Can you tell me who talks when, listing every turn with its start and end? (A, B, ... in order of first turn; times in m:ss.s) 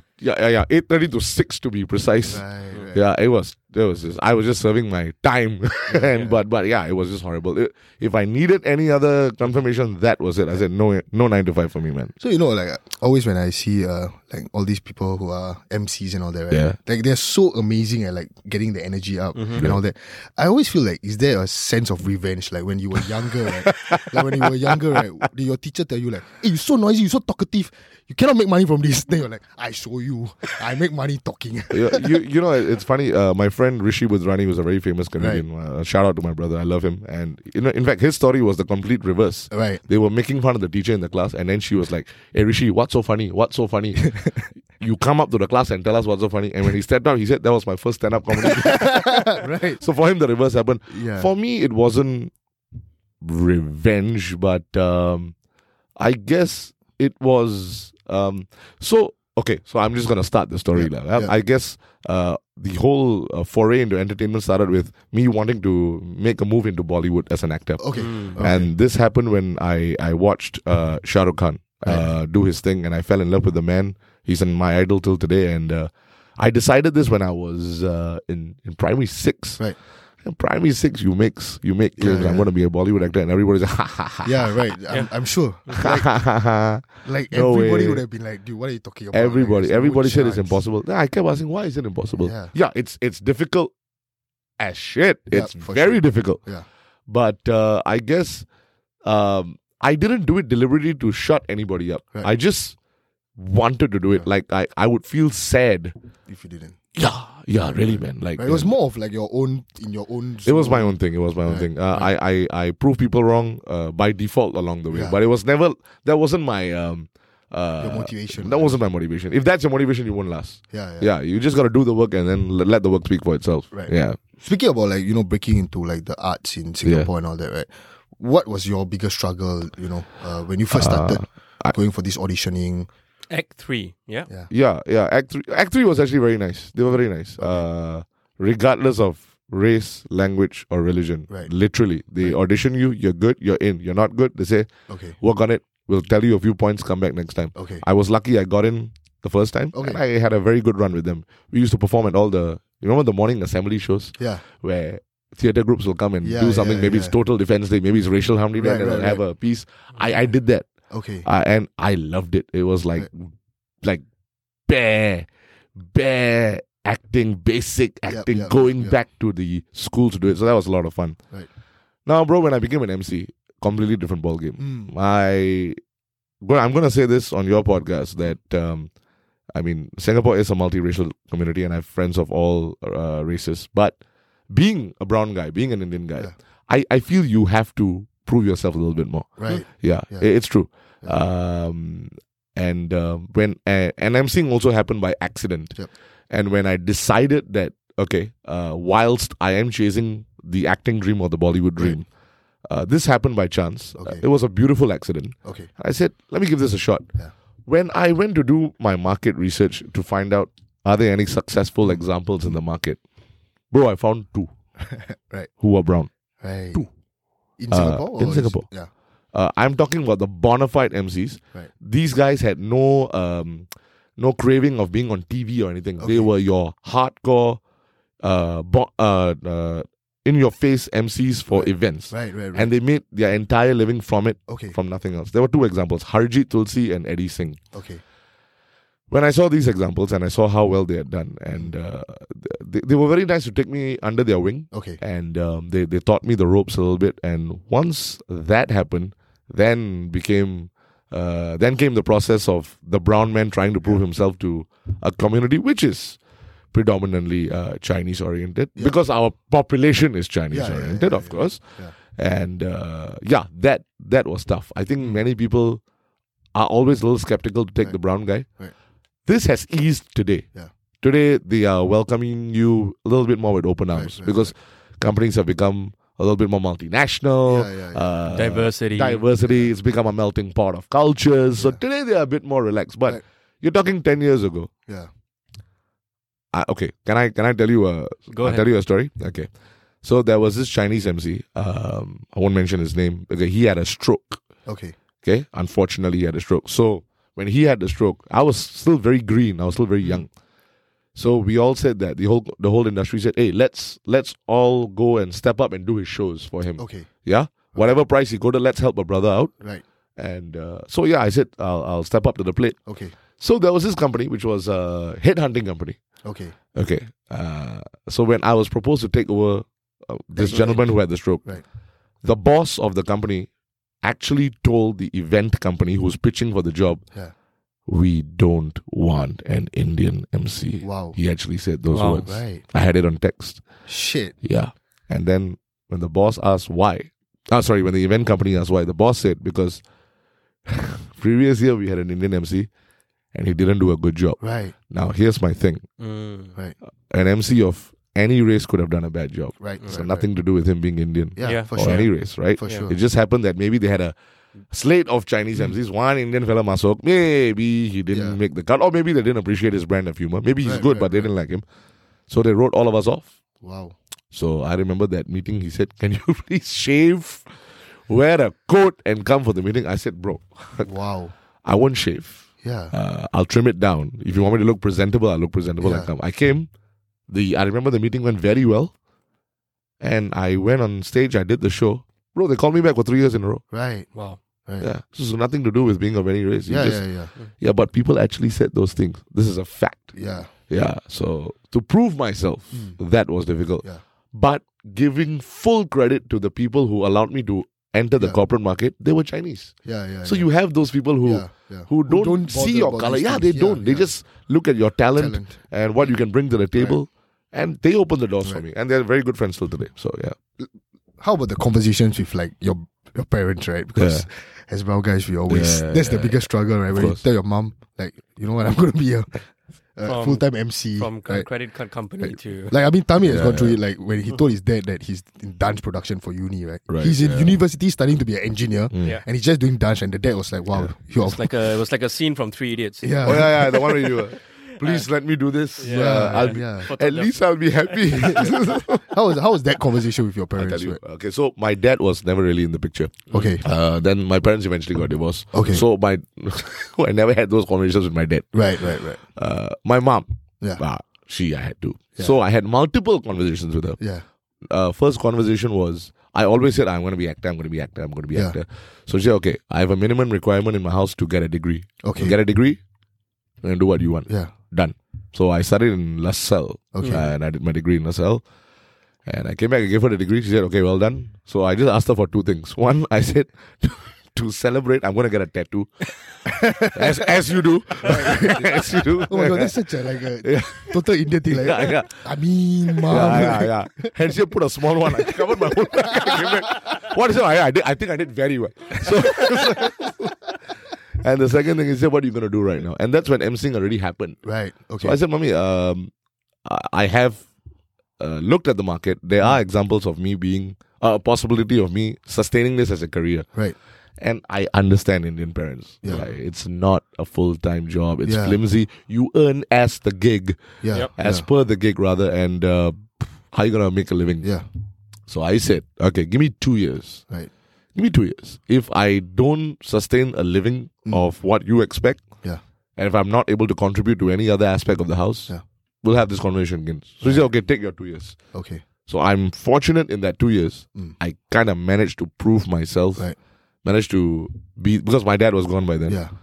0:00.2-0:12.1 A
0:02.2-0:03.0 B
0:05.9-0:06.4 B
0:12.2-0:32.1 B
0:16.5-0:16.8 A
0:19.4-0:19.7 C
0:19.5-0:19.8 A
0:23.7-0:24.4 A
0:31.7-0:52.3 A
0:35.2-0:35.4 B
0:39.5-0:39.8 B
0:48.4-0:49.8 B
0:50.9-0:51.3 B
0:53.2-0:55.4 A
0:56.0-1:19.6 A
1:00.7-1:01.3 B
1:07.8-1:08.7 B
1:08.0-1:08.4 C
1:11.9-1:12.1 B
1:20.2-1:24.5 A
1:22.0-1:22.5 B
1:24.2-1:26.2 B
1:25.7-1:28.0 A
1:27.0-1:30.6 B
1:29.1-1:33.7 A
1:32.2-1:32.5 B
1:34.6-1:36.5 A
1:35.3-1:36.7 B
1:37.1-1:38.5 A
1:39.0-1:42.8 A
1:43.4-1:45.9 A
1:46.3-1:46.8 B
1:47.0-1:48.7 A
1:48.4-1:52.1 B
1:50.4-2:04.2 A
1:54.9-1:55.2 B
1:57.8-1:58.8 B
2:00.7-2:01.1 B
2:03.7-2:12.9 B
2:10.7-2:11.7 A
2:13.3-2:14.3 C
2:14.5-2:40.7 A
2:17.4-2:17.7 B
2:24.9-2:25.2 B
2:27.6-2:27.8 B
2:29.7-2:30.0 B
2:34.2-2:34.4 B
2:36.2-2:37.2 B
2:38.6-2:39.2 B
2:40.9-2:41.3 B
2:41.2-2:44.0 A
2:44.7-2:45.3 A
2:45.8-2:51.2 A
2:48.1-2:49.0 B
2:52.1-2:55.8 A
2:54.6-2:54.9 B
2:56.4-2:58.9 A
2:59.6-3:04.0 A
3:04.5-3:15.8 A
3:09.4-3:10.3 B
3:16.3-3:22.1 A
3:22.7-3:27.1 A
3:24.0-3:24.2 B
3:25.4-3:25.7 B
3:27.7-3:33.0 A
3:33.7-3:34.5 A
3:34.8-3:35.5 B
3:35.6-3:36.1 A
3:36.4-3:36.9 B
3:37.6-3:38.9 B
3:37.7-3:38.7 A
3:39.3-3:47.6 A
3:46.0-3:46.3 B
3:48.2-3:57.6 A
3:51.5-3:52.7 B
3:54.5-3:54.8 B
3:57.7-3:58.0 B
3:59.1-4:16.2 A
4:04.7-4:05.0 B
4:16.7-4:25.8 A
4:20.5-4:22.0 B
4:26.6-4:28.5 A
4:27.8-4:28.7 B
4:29.3-4:30.5 A
4:31.0-4:44.7 A
4:33.9-4:34.5 B
4:37.5-4:38.2 B
4:38.3-4:39.3 C
4:41.6-4:41.8 B
4:46.5-4:49.5 A
4:48.3-4:48.7 C
4:50.0-4:54.4 A
4:54.7-4:55.0 B
4:55.2-5:00.3 A
5:01.2-5:09.5 A
5:06.8-5:07.1 B
5:10.2-5:12.8 A
5:12.9-5:13.2 B
5:13.4-5:16.0 A
5:16.2-5:16.6 B
5:16.8-5:21.5 A
5:20.4-5:21.6 B
5:22.2-5:23.5 A
5:24.0-5:27.0 A
5:27.9-5:33.6 A
5:30.8-5:31.2 B
5:31.9-5:32.3 C
5:32.3-5:32.6 B
5:33.9-5:34.4 B
5:34.4-5:39.8 A
5:40.7-5:42.7 A
5:43.3-5:45.8 A
5:44.4-5:44.7 B
5:46.0-5:46.6 C
5:47.1-5:54.1 A
5:49.6-5:50.3 B
5:51.4-5:53.0 B
5:51.4-5:52.1 C
5:52.6-5:52.9 C
5:54.7-6:01.6 A
5:58.1-5:58.4 B
6:00.6-6:01.3 B
6:02.3-6:03.3 A
6:03.6-6:04.0 B
6:04.3-6:07.6 A
6:08.1-6:10.9 A
6:10.8-6:11.3 B
6:11.6-6:16.7 A
6:12.6-6:12.9 B
6:15.8-6:16.1 B
6:17.3-6:18.9 A
6:20.0-6:23.6 A
6:23.7-6:24.1 B
6:24.1-6:24.4 C
6:24.8-6:50.4 A
6:26.7-6:27.3 B
6:30.2-6:30.5 B
6:32.7-6:33.0 B
6:39.8-6:40.5 B
6:41.2-6:44.1 B
6:45.2-6:45.6 B
6:50.6-7:01.5 B
6:54.0-6:54.2 A
6:55.5-6:57.2 A
7:00.0-7:02.8 C
7:02.2-7:11.7 B
7:03.2-7:03.8 A
7:06.9-7:07.6 A
7:08.9-7:09.2 A
7:11.2-7:15.1 C
7:13.0-7:14.2 B
7:13.2-7:19.2 A
7:15.8-7:18.3 C
7:15.8-7:16.9 B
7:18.1-7:21.0 B
7:20.6-7:34.0 A
7:23.3-7:23.6 B
7:25.5-7:25.8 B
7:28.5-7:29.2 B
7:34.0-7:34.2 B
7:34.7-7:42.8 A
7:42.0-7:42.4 B
7:43.6-7:48.4 A
7:44.3-7:44.5 B
7:46.9-7:47.3 B
7:49.3-8:02.3 A
7:56.5-7:57.3 B
7:58.0-8:04.2 B
8:03.0-8:14.4 A
8:05.1-8:05.5 B
8:06.1-8:06.4 B
8:14.4-8:15.2 B
8:15.0-8:16.1 A
8:16.6-8:17.5 A
8:18.2-8:23.5 A
8:24.2-8:34.5 A
8:28.2-8:28.6 B
8:30.8-8:31.5 B
8:35.3-8:37.3 A
8:38.0-8:42.2 A
8:43.0-8:48.4 A
8:47.2-8:47.5 B
8:48.5-8:48.8 B
8:49.1-8:53.3 A
8:53.8-8:56.2 A
8:56.1-8:56.3 B